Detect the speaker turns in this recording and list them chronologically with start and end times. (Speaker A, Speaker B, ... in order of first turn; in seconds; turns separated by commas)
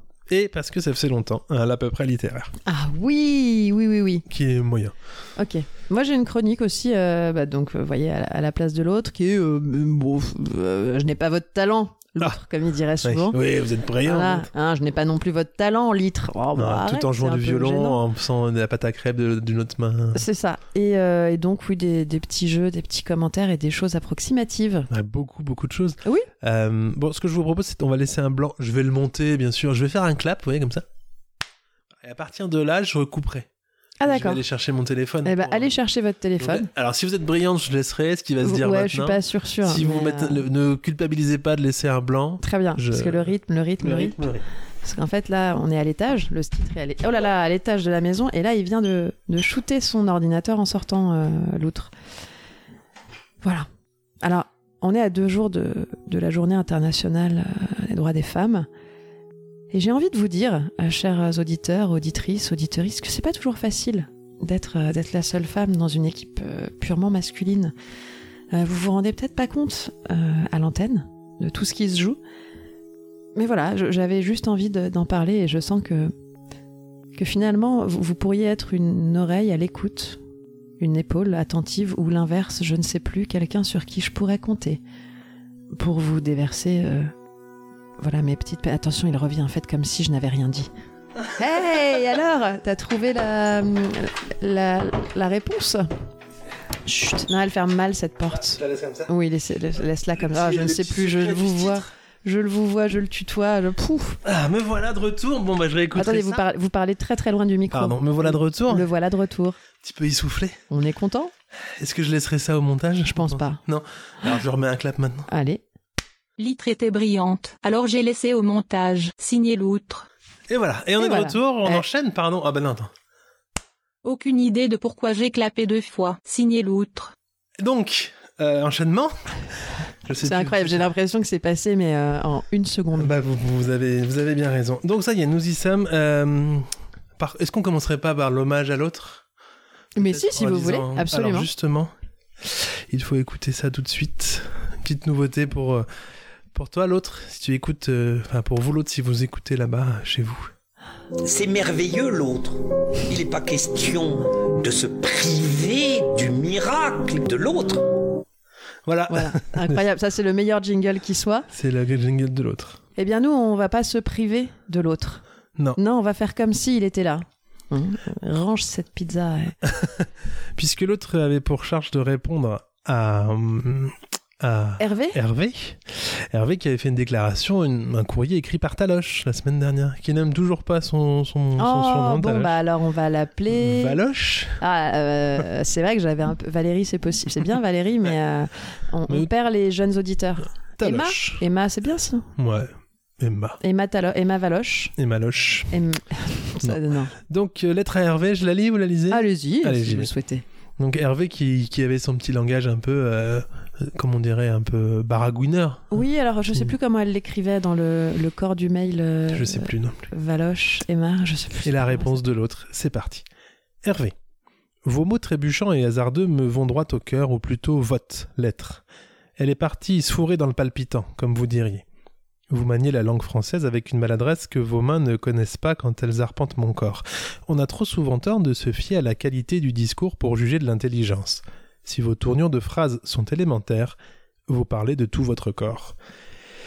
Speaker A: 0.3-2.5, Speaker B: 2.6-4.2, Speaker A: 4.3-4.9, Speaker B: 5.4-13.4, Speaker A: 13.0-14.5, Speaker B: 14.0-18.0, Speaker A: 16.6-20.2, Speaker B: 20.1-24.9, Speaker A: 24.9-30.8, Speaker A: 32.0-33.5, Speaker B: 34.0-34.4, Speaker A: 34.0-35.7, Speaker B: 35.2-36.7, Speaker A: 36.4-44.4, Speaker B: 38.4-40.4, Speaker B: 42.4-44.2, Speaker B: 44.8-51.9, Speaker B: 53.4-53.7, Speaker B: 54.2-58.7, Speaker B: 59.7-67.7, Speaker B: 68.5-72.2, Speaker B: 73.3-76.1, Speaker B: 77.1-80.2, Speaker B: 80.8-84.8, Speaker B: 85.7-87.1, Speaker B: 88.0-90.7, Speaker B: 91.3-95.9, Speaker B: 96.8-104.2, Speaker A: 98.5-99.1, Speaker A: 100.2-101.8, Speaker A: 104.2-106.4, Speaker B: 105.9-109.6, Speaker A: 107.7-108.9, Speaker A: 109.8-110.6, Speaker B: 110.7-111.3, Speaker A: 111.8-115.3, Speaker B: 113.0-113.6, Speaker B: 115.3-115.6, Speaker C: 116.4-120.1, Speaker A: 120.5-122.9, Speaker B: 121.0-121.8, Speaker C: 124.0-127.1, Speaker A: 127.6-129.1, Speaker A: 130.0-130.9, Speaker B: 130.2-133.1, Speaker A: 132.9-136.7, Speaker A: 137.2-139.2, Speaker B: 139.9-141.5, Speaker A: 140.0-141.9, Speaker A: 142.4-145.8, Speaker A: 146.5-150.5, Speaker D: 151.2-157.9, Speaker A: 158.8-159.8, Speaker B: 159.1-161.5, Speaker A: 161.5-162.8, Speaker B: 162.9-165.2, Speaker B: 165.8-169.6, Speaker A: 169.7-182.6, Speaker B: 174.8-175.2, Speaker B: 181.6-184.0, Speaker A: 183.5-184.6, Speaker B: 184.6-192.3, Speaker A: 190.8-191.4, Speaker A: 192.3-193.6, Speaker B: 193.6-194.9, Speaker A: 195.0-195.7, Speaker B: 195.7-197.1, Speaker A: 196.6-200.1, Speaker B: 199.1-200.4, Speaker A: 200.8-206.0, Speaker B: 205.9-212.2, Speaker A: 209.3-210.0, Speaker A: 211.6-213.2, Speaker A: 213.8-214.1, Speaker A: 214.8-218.8, Speaker A: 219.4-221.8, Speaker A: 222.5-234.0, Speaker A: 234.5-235.9